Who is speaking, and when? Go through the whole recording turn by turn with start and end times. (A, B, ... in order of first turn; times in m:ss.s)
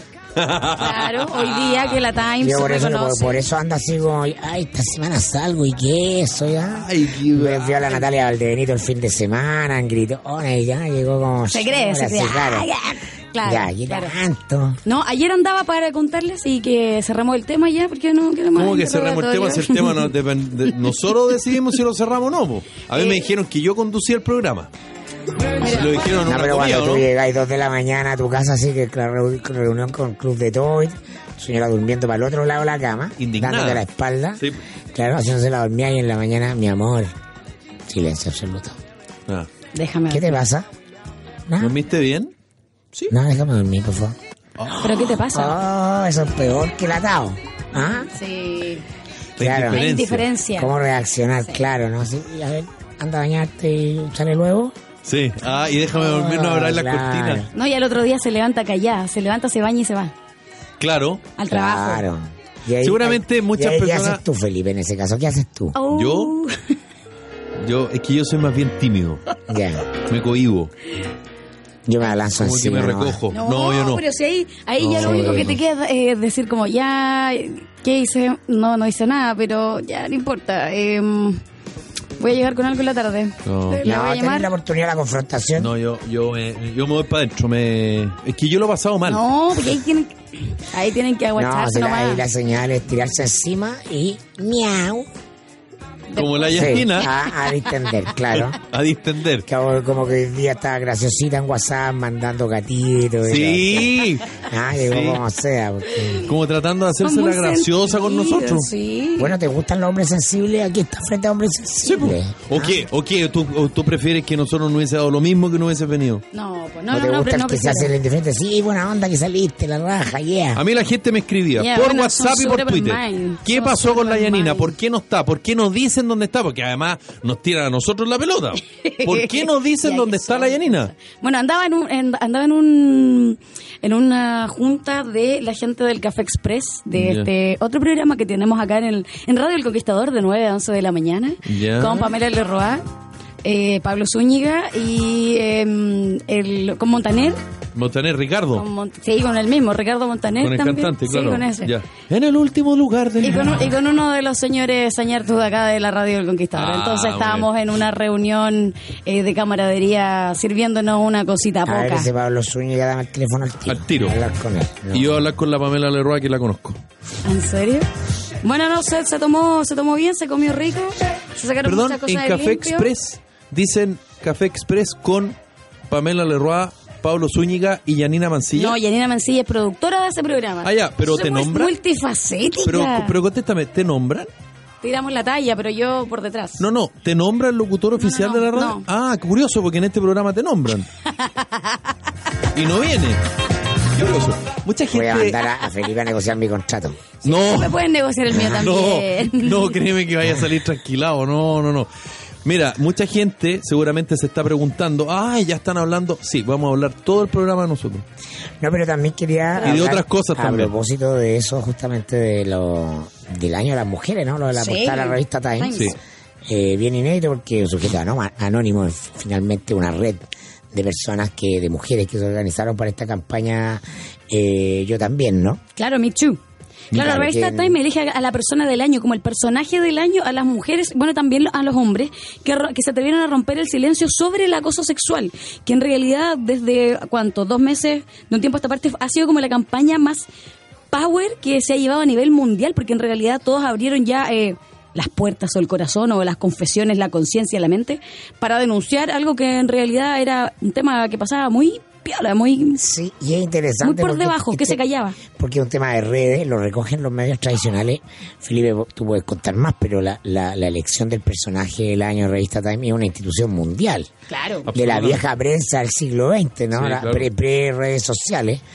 0:00.4-0:02.1 A
0:00.8-0:03.4 B
0:02.4-0:12.7 C
0:06.7-0:07.9 A
0:11.5-0:14.2 B
0:13.4-0:14.8 C
0:14.8-0:20.1 B
0:18.6-0:24.7 A
0:22.9-0:23.2 B
0:25.6-0:26.0 B
0:25.6-0:27.1 A
0:26.2-0:37.1 C
0:33.2-0:33.8 A
0:37.9-0:38.8 C
0:39.7-0:40.4 B
0:40.1-0:40.7 C
0:41.5-0:41.8 C
0:41.6-0:42.3 A
0:43.1-0:44.2 C
0:44.6-0:45.0 A
0:44.8-0:45.6 B
0:45.2-0:48.1 C
0:47.8-0:48.8 B
0:49.4-0:50.3 A
0:49.4-0:49.8 C
0:49.7-0:50.7 B
0:50.6-0:54.7 C
0:55.0-0:57.5 A
0:55.9-0:57.5 C
0:57.5-1:00.1 B
1:00.8-1:01.3 A
1:01.4-1:02.0 B
1:01.5-1:05.8 C
1:02.8-1:04.2 A
1:05.7-1:06.7 B
1:05.9-1:06.3 A
1:07.6-1:09.2 A
1:09.5-1:09.8 C
1:09.9-1:10.7 A
1:11.8-1:13.2 C
1:12.3-1:14.0 A
1:13.3-1:21.4 B
1:14.8-1:15.6 A
1:15.0-1:15.5 C
1:22.2-1:24.5 B
1:23.4-1:23.8 A
1:23.8-1:25.7 C
1:25.6-1:29.2 A
1:29.0-1:32.2 B
1:31.4-1:35.1 C
1:36.1-1:37.1 B
1:36.1-1:37.1 A
1:36.5-1:38.6 C
1:38.3-1:39.4 A
1:39.4-1:46.3 C
1:43.2-1:45.2 A
1:46.0-1:46.2 B
1:46.2-1:48.7 A
1:47.0-1:49.3 B
1:49.2-1:52.8 C
1:51.8-1:56.2 A
1:56.3-1:57.9 B
1:56.9-2:00.6 C
2:00.6-2:10.9 A
2:01.6-2:04.7 B
2:08.6-2:22.8 B
2:16.9-2:17.3 A
2:21.4-2:22.1 A
2:23.4-2:27.4 B
2:27.7-2:28.6 A
2:28.5-2:31.7 B
2:30.4-2:33.6 A
2:33.2-2:42.1 B
2:36.6-2:37.5 A
2:41.6-2:45.2 C
2:43.6-2:44.2 A
2:44.9-2:46.8 A
2:47.2-2:47.9 B
2:48.4-2:52.9 B
2:51.6-2:55.4 A
2:55.9-2:58.8 A
2:58.5-3:03.1 B
3:00.6-3:01.8 A
3:02.6-3:04.3 A
3:04.8-3:06.6 B
3:06.6-3:10.9 A
3:08.0-3:08.8 B
3:11.0-3:11.8 B
3:12.5-3:13.2 A
3:13.9-3:15.4 A
3:14.9-3:17.1 C
3:17.2-3:17.8 A
3:17.2-3:19.8 B
3:18.3-3:21.9 A
3:22.4-3:28.0 A
3:28.6-3:35.9 C
3:29.6-3:30.7 A
3:34.5-3:35.9 B
3:36.4-3:45.6 C
3:45.8-3:46.4 B
3:46.9-3:47.8 C
3:46.9-4:00.3 B
4:00.9-4:12.8 B
4:12.8-4:24.1 C
4:13.8-4:15.2 B
4:24.3-4:24.7 B
4:24.6-4:25.2 A
4:24.7-4:28.6 C
4:26.7-4:27.3 A